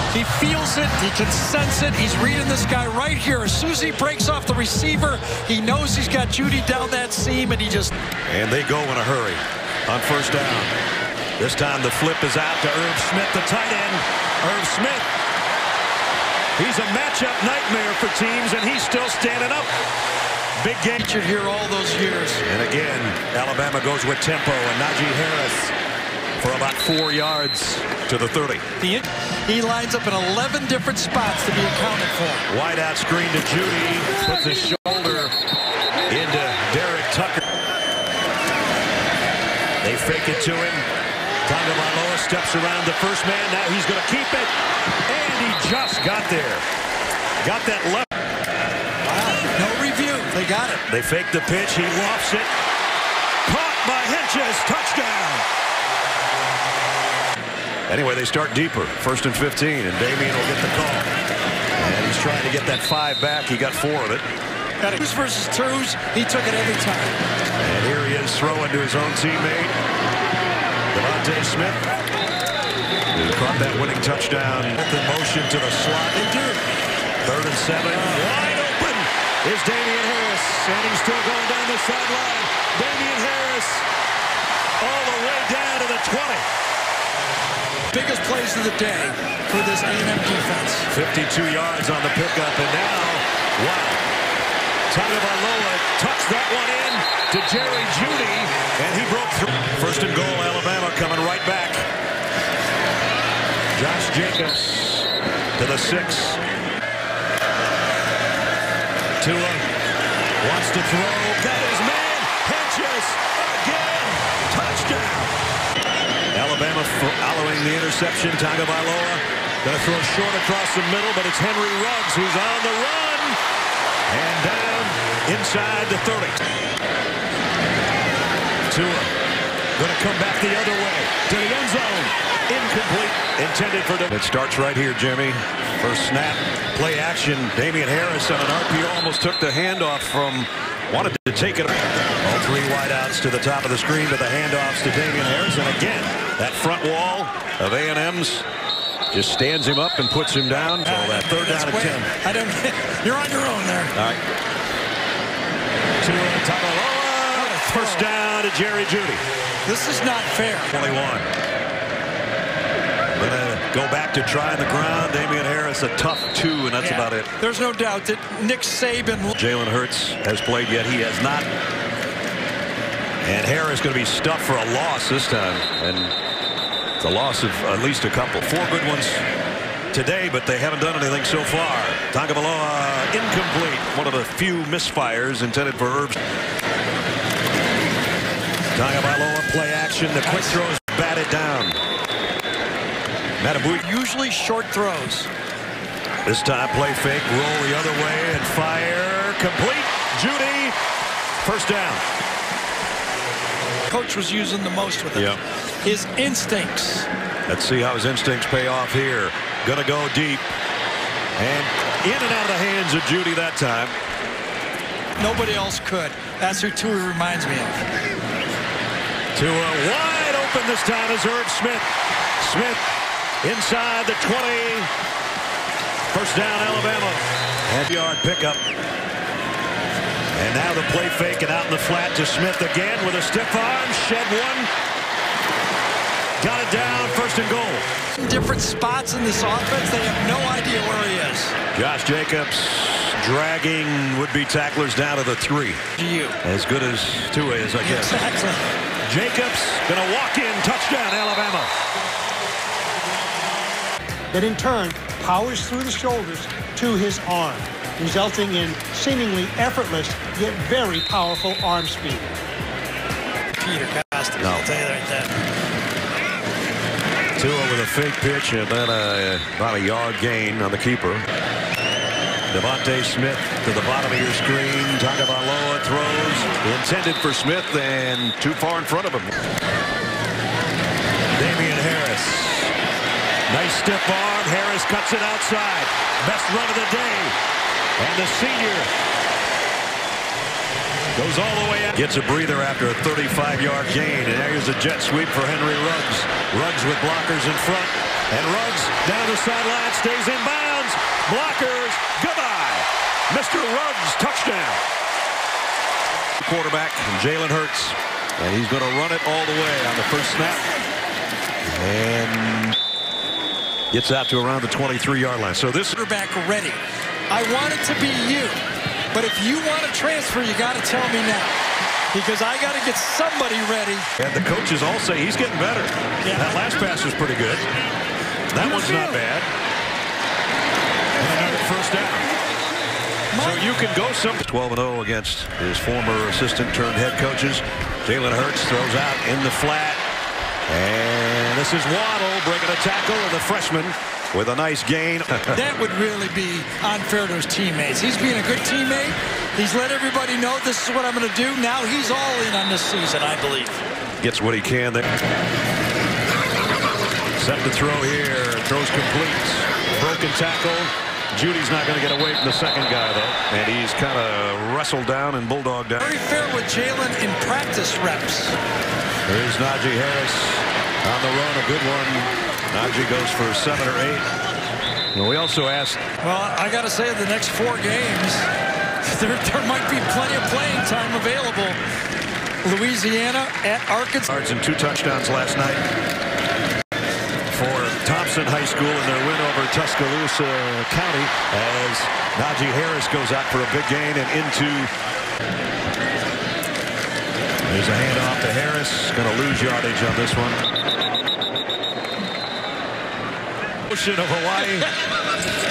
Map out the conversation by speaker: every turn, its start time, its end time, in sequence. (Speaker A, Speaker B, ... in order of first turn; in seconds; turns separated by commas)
Speaker A: 0.1-7.9, Speaker B: 8.3-10.7, Speaker B: 11.4-15.1, Speaker B: 16.6-19.7, Speaker B: 20.6-21.0, Speaker A: 20.9-22.4, Speaker B: 22.4-25.7, Speaker B: 26.4-28.6, Speaker A: 28.8-32.5, Speaker B: 32.5-35.3, Speaker B: 36.1-37.4, Speaker B: 39.8-40.8, Speaker B: 41.4-44.5, Speaker B: 45.1-46.6, Speaker B: 47.4-48.1, Speaker A: 49.0-50.8, Speaker B: 50.9-52.5, Speaker B: 53.4-55.5, Speaker B: 57.9-61.1, Speaker B: 61.8-64.2, Speaker A: 64.8-67.2, Speaker B: 67.6-69.7, Speaker B: 70.9-71.8, Speaker B: 73.1-76.3, Speaker A: 76.2-76.6, Speaker B: 77.2-83.9, Speaker B: 84.8-86.4, Speaker A: 87.9-90.9, Speaker B: 90.9-94.0, Speaker B: 94.9-101.8, Speaker B: 103.7-106.4, Speaker B: 109.2-109.6, Speaker B: 110.4-115.3, Speaker B: 116.3-123.4, Speaker B: 124.1-126.4, Speaker B: 128.7-129.1, Speaker B: 129.8-148.4, Speaker B: 149.1-152.1, Speaker A: 150.8-153.9, Speaker B: 153.9-154.2, Speaker B: 156.0-159.2, Speaker A: 157.3-158.1, Speaker A: 159.7-160.7, Speaker B: 160.7-161.3, Speaker B: 163.1-167.3, Speaker A: 166.8-169.3, Speaker B: 169.3-171.5, Speaker B: 173.2-176.1, Speaker B: 177.0-179.2, Speaker B: 179.9-186.2, Speaker B: 188.7-191.8, Speaker A: 190.2-190.6, Speaker B: 193.4-193.8, Speaker A: 193.7-195.3, Speaker B: 196.2-200.8, Speaker B: 201.4-202.0, Speaker A: 203.9-207.1, Speaker B: 205.1-205.4, Speaker B: 207.5-210.5, Speaker B: 211.4-213.9, Speaker A: 215.2-217.8, Speaker B: 219.3-221.9, Speaker B: 222.4-222.8, Speaker B: 223.4-224.9, Speaker B: 226.1-228.6, Speaker B: 230.3-234.7, Speaker B: 236.4-237.9, Speaker A: 238.1-241.6, Speaker B: 241.7-245.8, Speaker A: 246.0-246.4, Speaker B: 246.4-248.3, Speaker A: 247.8-248.6, Speaker B: 249.1-251.7, Speaker C: 254.3-262.3, Speaker A: 263.6-265.3, Speaker B: 264.4-264.7, Speaker B: 267.4-271.2, Speaker B: 272.5-279.3, Speaker B: 281.4-282.7, Speaker B: 283.5-287.3, Speaker B: 288.0-288.9, Speaker B: 291.1-304.8, Speaker B: 306.4-310.7, Speaker B: 311.6-312.8, Speaker B: 313.9-316.0, Speaker A: 315.9-318.6, Speaker A: 319.1-321.6, Speaker A: 322.1-324.1, Speaker B: 324.2-327.7, Speaker A: 326.2-326.6, Speaker B: 328.5-329.5, Speaker A: 328.5-329.2, Speaker B: 331.2-332.3, Speaker A: 333.3-333.6, Speaker B: 333.4-340.0, Speaker B: 340.7-345.6, Speaker A: 345.5-353.8, Speaker B: 354.2-355.1, Speaker B: 357.4-366.1, Speaker A: 366.0-368.6, Speaker B: 369.3-374.3, Speaker B: 375.1-376.0, Speaker A: 376.2-378.5, Speaker A: 379.0-381.8, Speaker A: 382.6-384.3, Speaker B: 384.3-385.8, Speaker B: 387.5-394.9, Speaker B: 397.6-400.6, Speaker B: 403.9-404.9